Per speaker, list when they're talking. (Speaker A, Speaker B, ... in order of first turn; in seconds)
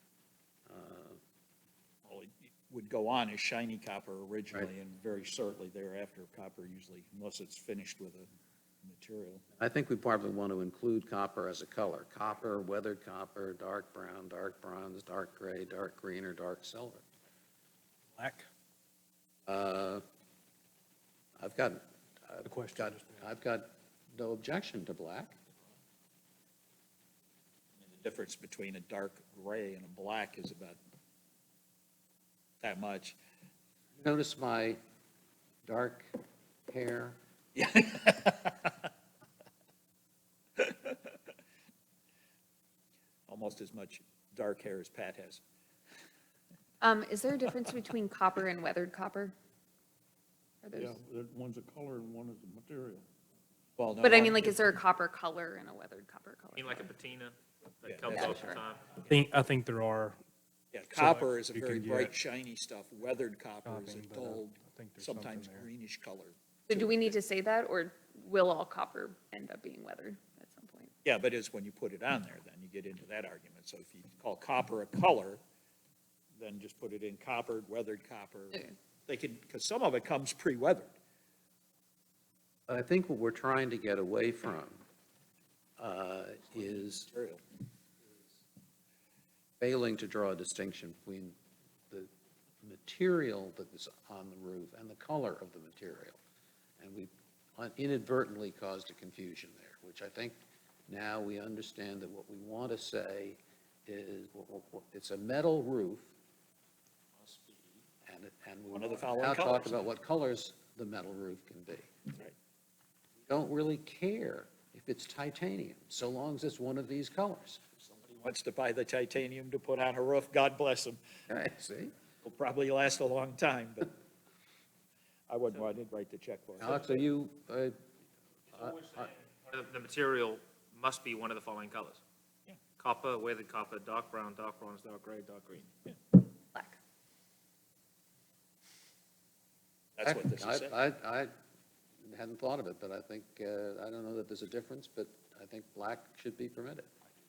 Speaker A: 0.7-1.2, 9.6-17.0, 19.5-20.0, 21.4-25.3, 34.0-34.8, 35.6-36.1, 36.7-37.2, 82.7-84.8, 85.8-87.1, 89.6-91.3, 92.6-96.2, 96.8-100.3, 100.9-106.1, 108.0-111.9, 113.3-117.6, 121.3-121.9, 126.6-127.8, 128.5-129.1, 140.0-141.3, 142.0-146.9
Speaker B: 2.0-8.3, 8.8-9.4, 27.8-30.8, 32.6-33.2, 37.5-38.7, 40.6-41.0, 43.3-45.4, 53.8-54.6, 57.8-58.3, 60.7-67.1, 71.0-75.4, 76.4-80.9, 86.5-87.4, 108.7-109.8, 118.2-121.0, 122.2-123.9, 125.3-126.9, 140.0-140.8
Speaker C: 18.2-18.5, 22.4-23.2, 59.1-60.2, 61.0-62.1, 63.6-65.7
Speaker D: 46.8-49.4, 50.6-51.0, 54.0-56.9, 58.1-58.6, 66.7-70.9
Speaker E: 50.7-53.0
Speaker F: 56.5-59.0, 107.2-107.7, 129.2-132.0, 132.8-135.7